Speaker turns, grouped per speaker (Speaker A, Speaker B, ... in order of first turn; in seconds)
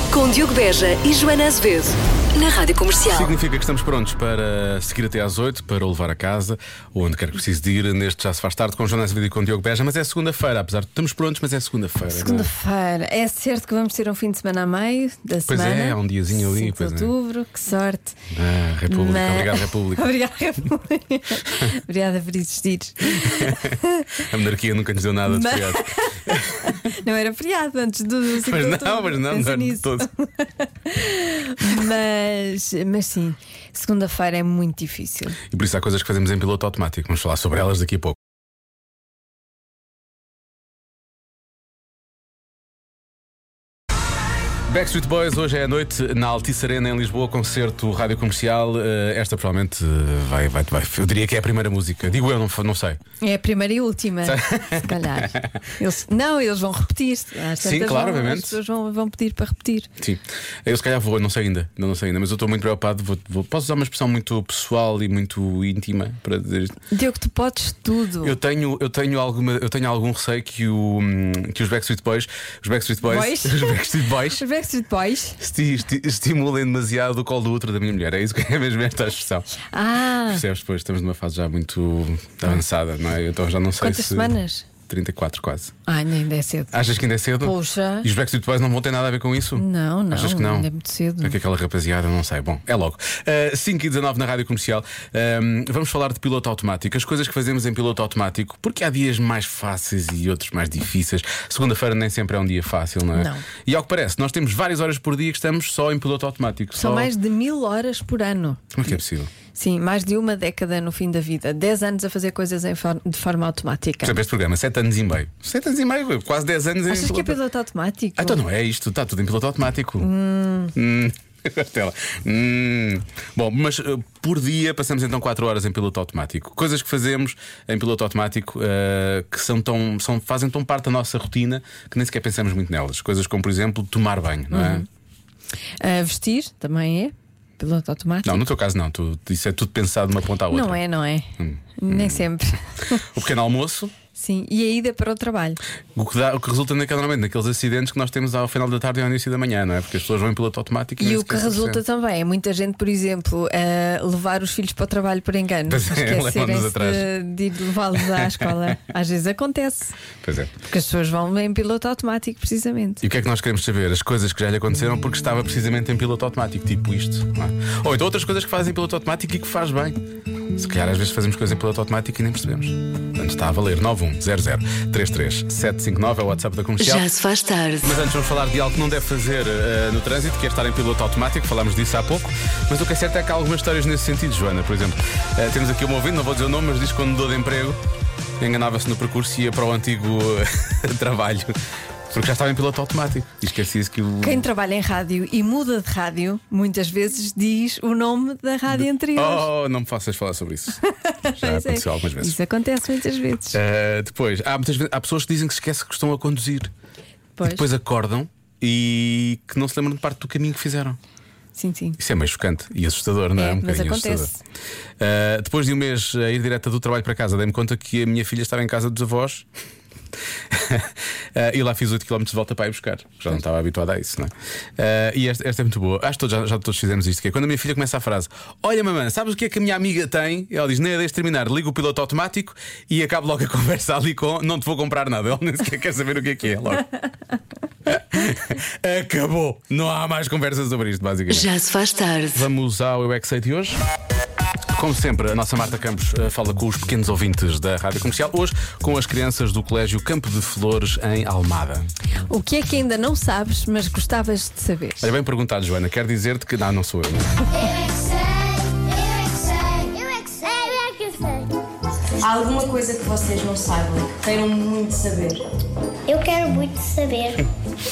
Speaker A: 0.1-3.3, 176.8-177.9, 241.3-242.4
Speaker B: 3.1-12.5, 15.5-17.1, 18.3-20.1, 23.1-26.8, 28.3-30.1, 35.5-38.2, 44.7-53.0, 54.2-55.4, 57.6-58.6, 60.0-66.8, 68.2-74.4, 75.4-79.5, 80.2-84.3, 84.9-85.7, 86.7-90.7, 91.2-107.1, 108.7-109.3, 114.0-117.4, 118.2-120.1, 120.7-134.8, 138.2-140.8, 141.4-142.3, 143.0-143.9, 145.9-151.8, 155.7-157.1, 158.0-158.5, 160.2-160.5, 163.0-170.0, 170.6-177.1, 177.8-187.8, 188.4-191.5, 192.1-194.5, 198.7-202.4, 203.5-206.7, 207.4-211.0, 212.0-214.3, 215.0-219.5, 220.5-236.9, 237.8-241.5, 242.3-243.8, 244.7-251.9, 255.0-257.4
Speaker C: 12.1-18.1, 18.9-24.2, 25.3-35.4, 53.2-59.9, 66.9-68.4, 73.0-75.4, 79.7-80.4, 83.8-84.7, 85.9-86.8, 87.4-88.1, 89.5-91.3, 103.1-103.4, 106.8-108.8, 109.5-114.2, 116.9-118.4, 120.0-120.7, 134.5-134.8, 135.8-138.4, 140.5-143.0, 144.1-145.6, 151.0-160.0, 160.6-163.0, 194.2-199.5, 200.9-203.6, 207.4-207.7, 211.5-212.0, 213.3-214.4, 252.3-255.1
Speaker D: 257.6-261.5, 266.1-267.4
Speaker E: 260.5-260.8, 262.2-265.4